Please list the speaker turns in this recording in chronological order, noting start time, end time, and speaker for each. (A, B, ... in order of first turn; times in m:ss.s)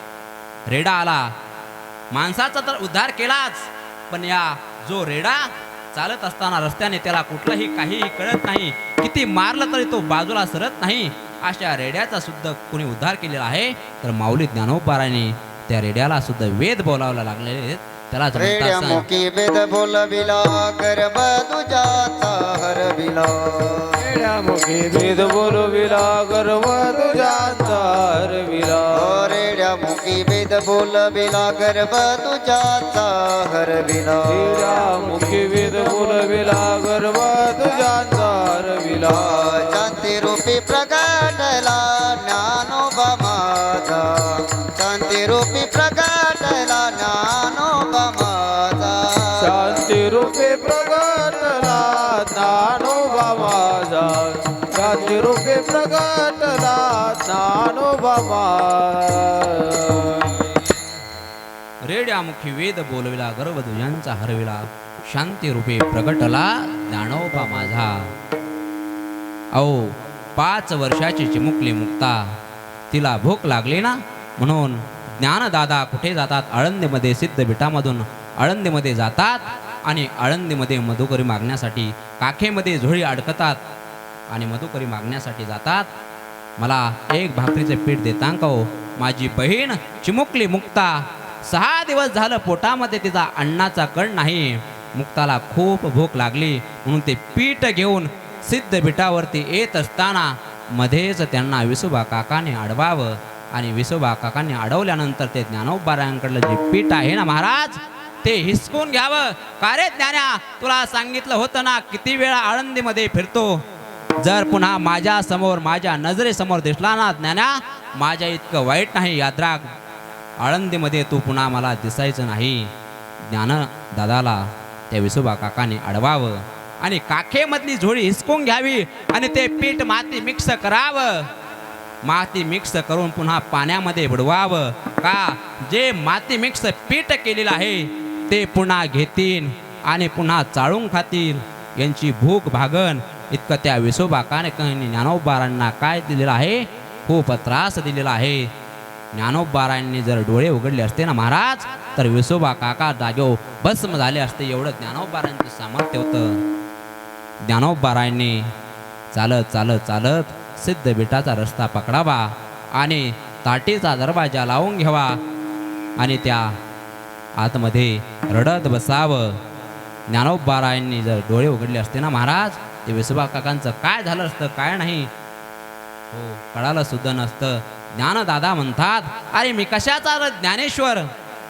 0:00.7-0:01.3 A
0:02.1-0:19.0 A
0:18.3-0:24.1 B
0:24.0-0:29.2 C
0:28.9-0:34.9 B
0:34.3-0:39.6 C
0:39.0-0:49.8 B
0:49.4-1:00.6 C
1:01.8-1:08.1 A
1:09.5-1:12.3 A
1:12.9-1:23.6 A
1:24.3-1:25.9 A
1:26.6-1:53.6 A
1:54.2-1:59.6 A
2:00.4-2:02.7 A
2:03.3-2:11.3 A
2:12.0-2:28.5 A
2:29.1-2:36.4 A
2:37.4-2:38.4 A
2:39.1-2:45.2 A
2:46.0-2:46.5 A
2:47.4-2:49.4 A
2:50.1-2:55.1 A
2:56.1-3:01.1 A